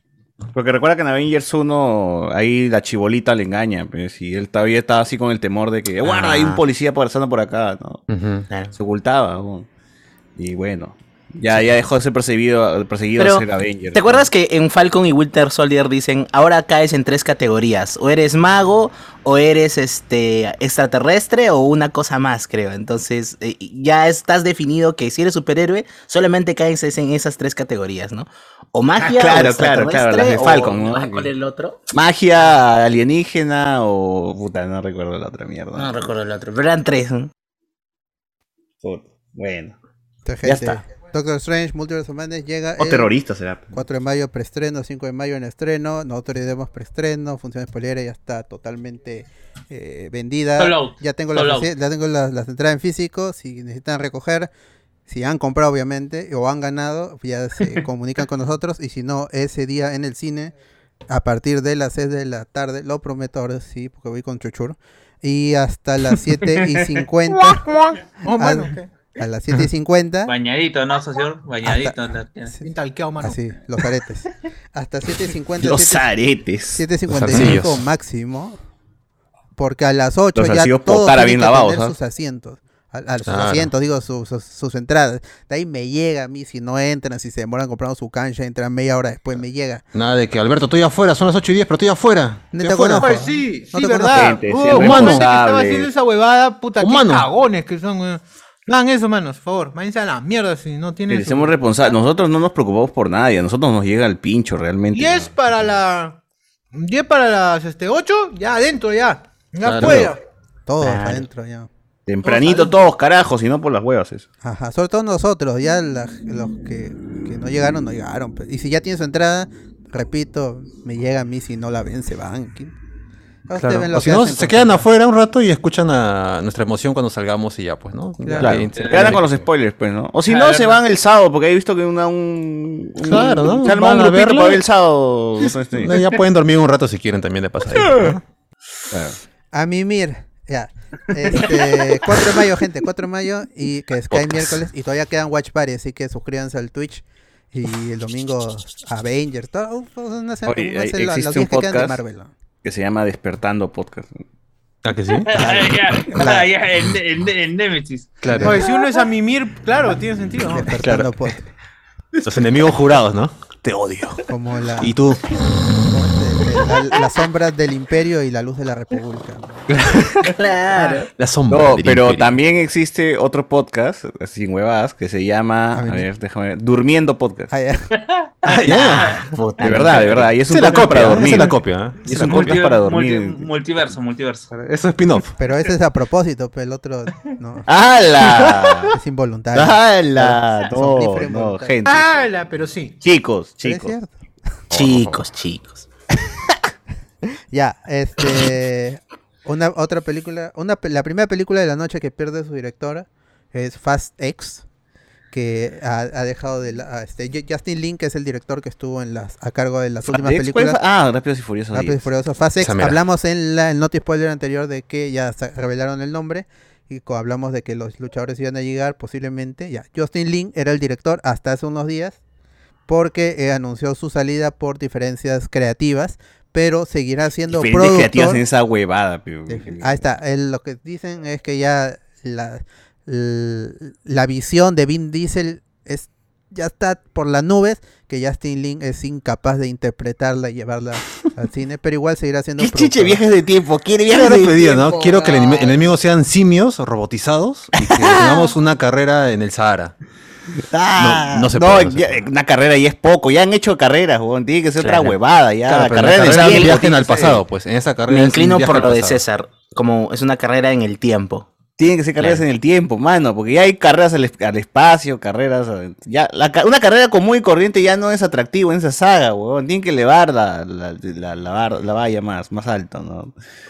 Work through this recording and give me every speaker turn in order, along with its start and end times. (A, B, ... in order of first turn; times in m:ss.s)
0:00.5-0:08.0 A
0:06.0-0:06.6 B
0:08.1-0:08.4 C
0:08.7-0:09.7 A
0:10.4-0:14.3 A
0:13.2-0:31.8 B
0:29.0-0:31.3 A
0:31.9-0:36.1 A
0:35.7-0:37.3 B
0:38.8-0:39.8 A
0:40.2-0:43.1 D
0:40.4-0:40.8 A
0:42.8-0:43.7 A
0:43.7-0:54.5 D
0:50.6-0:51.7 E
0:55.1-1:00.5 D
1:01.1-1:07.6 D
1:07.3-1:08.9 F
1:08.3-1:10.3 D
1:10.2-1:12.5 E
1:11.6-1:12.0 D
1:12.6-1:13.4 F
1:13.2-1:16.1 D
1:15.6-1:16.8 A
1:16.7-1:18.6 D
1:17.1-1:17.8 C
1:19.6-1:29.8 D
1:20.3-1:21.9 A
1:23.2-1:23.7 C
1:29.9-1:33.1 C
1:32.5-1:34.4 D
1:33.0-1:41.5 F
1:34.1-1:35.9 A
1:34.7-1:35.3 C
1:36.8-1:37.3 C
1:41.1-1:45.3 A
1:44.9-1:46.2 F
1:46.7-1:50.2 F
1:49.6-1:50.1 C
1:50.7-1:51.7 D
1:50.8-1:51.2 B
1:52.0-1:54.2 A
1:52.2-1:52.7 F
1:54.4-2:02.7 D
2:03.5-2:04.8 D
2:03.5-2:09.4 C
2:08.2-2:08.6 D
2:08.4-2:16.0 A
2:08.7-2:09.2 E
2:10.3-2:10.8 E
2:13.0-2:14.6 C
2:15.8-2:18.2 C
2:18.9-2:19.2 A
2:19.5-2:32.3 D
2:24.1-2:24.6 C
2:30.4-2:32.0 A
2:32.6-2:34.1 A
2:34.8-2:35.5 C
2:35.3-2:38.2 E
2:35.4-2:36.5 D
2:38.2-2:38.6 C
2:38.4-2:40.8 F
2:40.5-2:41.4 D
2:42.2-2:44.2 C
2:44.3-2:45.0 D
2:44.8-2:45.2 C
2:45.8-2:49.6 D
2:49.7-2:50.2 C
2:50.2-2:51.1 B
2:51.2-2:52.4 C
2:51.5-2:57.5 A
2:55.7-2:56.1 D
2:57.5-2:57.9 D
2:58.5-2:59.2 C
2:58.6-3:00.4 B
2:59.6-3:03.5 A
3:00.5-3:02.6 C
3:02.1-3:04.5 E
3:04.5-3:05.3 C
3:05.4-3:07.7 D
3:07.6-3:08.9 A
3:08.9-3:11.8 D
3:09.5-3:12.1 A
3:11.8-3:13.0 F
3:13.0-3:13.9 A
3:13.6-3:14.1 D
3:14.7-3:15.2 C
3:14.7-3:15.9 B
3:17.5-3:24.6 D
3:25.3-3:30.8 D
3:30.1-3:32.0 A
3:31.7-3:42.2 D
3:32.6-3:33.0 C
3:42.9-3:48.4 D
3:47.5-3:50.0 A
3:49.5-4:03.2 D
4:02.6-4:04.8 A
4:04.1-4:10.0 C
4:04.5-4:05.6 B
4:08.0-4:08.5 B
4:10.8-4:17.4 A
4:11.0-4:12.2 C
4:14.8-4:15.2 B
4:15.7-4:19.2 C
4:16.2-4:16.8 B
4:18.1-4:21.5 B
4:21.8-4:33.3 A